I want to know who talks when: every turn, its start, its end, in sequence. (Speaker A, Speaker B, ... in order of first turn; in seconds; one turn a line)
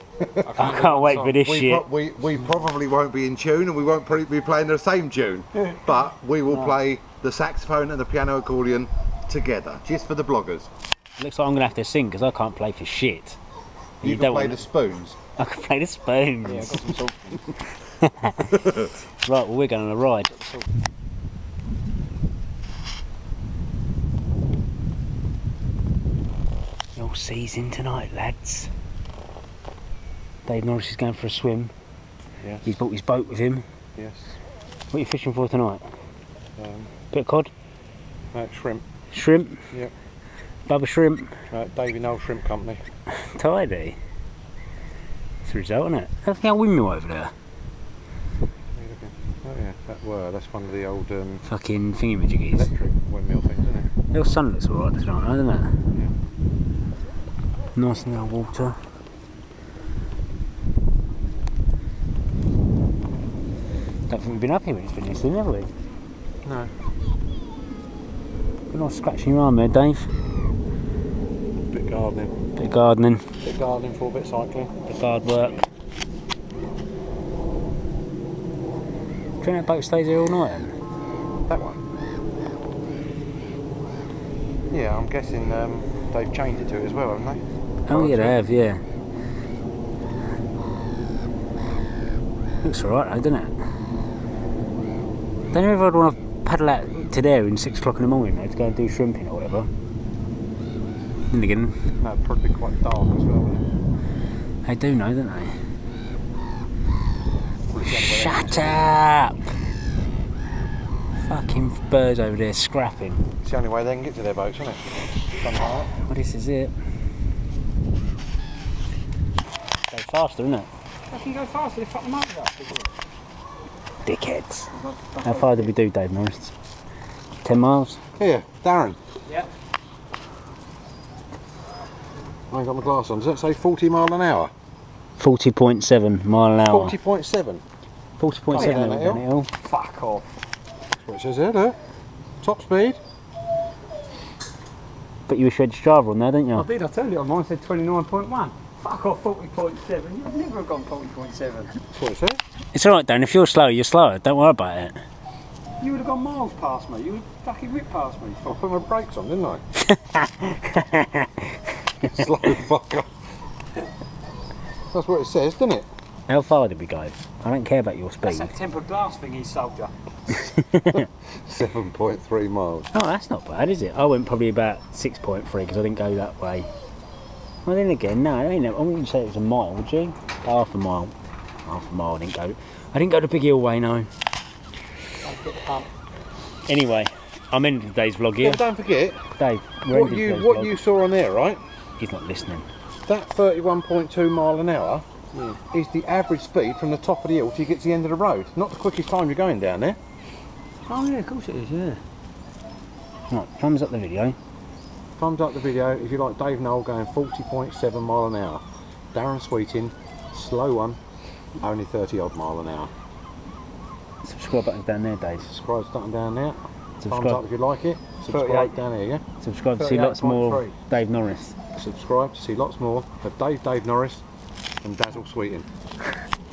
Speaker A: 0.2-10.7
Speaker B: 0.6-1.9
Speaker C: 0.6-1.2
Speaker C: 6.5-6.8
Speaker B: 11.2-13.4
Speaker B: 14.0-14.6
Speaker A: 14.0-15.2
Speaker B: 15.4-16.8
Speaker C: 16.4-17.6
Speaker B: 18.0-20.4
Speaker B: 26.9-28.7
Speaker B: 30.4-31.7
Speaker A: 32.4-32.7
Speaker B: 32.6-33.6
Speaker A: 34.0-34.4
Speaker B: 34.9-35.9
Speaker A: 36.6-36.9
Speaker B: 37.1-37.5
Speaker A: 38.3-38.8
Speaker B: 39.1-39.7
Speaker B: 40.7-41.4
Speaker A: 41.5-42.8
Speaker B: 43.1-44.0
Speaker B: 45.4-47.3
Speaker A: 48.7-51.4
Speaker B: 51.5-52.7
Speaker A: 52.5-53.9
Speaker B: 54.1-55.8
Speaker B: 57.8-58.8
Speaker B: 64.1-65.7
Speaker A: 66.4-66.7
Speaker B: 68.7-70.1
Speaker A: 71.7-72.3
Speaker B: 72.5-73.3
Speaker A: 73.4-74.8
Speaker B: 74.8-75.6
Speaker B: 79.4-80.8
Speaker A: 81.5-81.8
Speaker A: 84.7-88.4
Speaker B: 87.9-88.8
Speaker B: 92.6-93.6
Speaker B: 95.5-99.7
Speaker B: 101.3-101.8
Speaker A: 102.0-103.7
Speaker B: 104.6-105.6
Speaker A: 107.7-109.0
Speaker B: 107.8-109.5
Speaker B: 111.2-113.3
Speaker A: 113.4-115.9
Speaker B: 115.9-116.7
Speaker B: 119.9-120.7
Speaker C: 121.1-122.9
Speaker B: 124.0-126.5
Speaker C: 124.8-125.7
Speaker B: 127.4-128.0
Speaker A: 128.2-129.0
Speaker A: 132.5-134.5
Speaker B: 135.2-136.9
Speaker A: 136.7-137.6
Speaker B: 138.2-139.5
Speaker A: 138.5-139.2
Speaker C: 138.5-138.9
Speaker C: 139.6-140.2
Speaker A: 141.0-141.8
Speaker A: 142.4-143.0
Speaker B: 145.3-146.7
Speaker C: 146.5-151.8
Speaker A: 151.9-152.4
Speaker B: 152.7-154.9
Speaker C: 155.8-158.8
Speaker A: 158.5-159.6
Speaker B: 159.8-162.2
Speaker A: 162.0-163.1
Speaker A: 164.9-165.8
Speaker B: 166.3-168.6
Speaker C: 168.2-169.9
Speaker B: 170.3-171.0
Speaker A: 170.9-172.9
Speaker B: 172.9-176.7
Speaker B: 177.6-181.1
Speaker B: 181.7-184.1
Speaker C: 185.2-185.9
Speaker B: 186.7-188.6
Speaker A: 188.4-189.2
Speaker B: 189.4-190.8
Speaker A: 189.9-191.6
Speaker B: 192.0-192.7
Speaker A: 193.1-195.0
Speaker C: 195.3-195.6
Speaker A: 195.6-200.0
Speaker C: 200.9-202.0
Speaker B: 203.3-204.4
Speaker A: 205.2-211.0
Speaker A: 211.6-212.9
Speaker B: 214.2-215.5
Speaker A: 215.4-219.2
Speaker B: 217.0-217.4
Speaker C: 218.3-218.7
Speaker B: 219.4-221.6
Speaker C: 219.8-220.7
Speaker A: 221.7-224.2
Speaker A: 224.8-225.7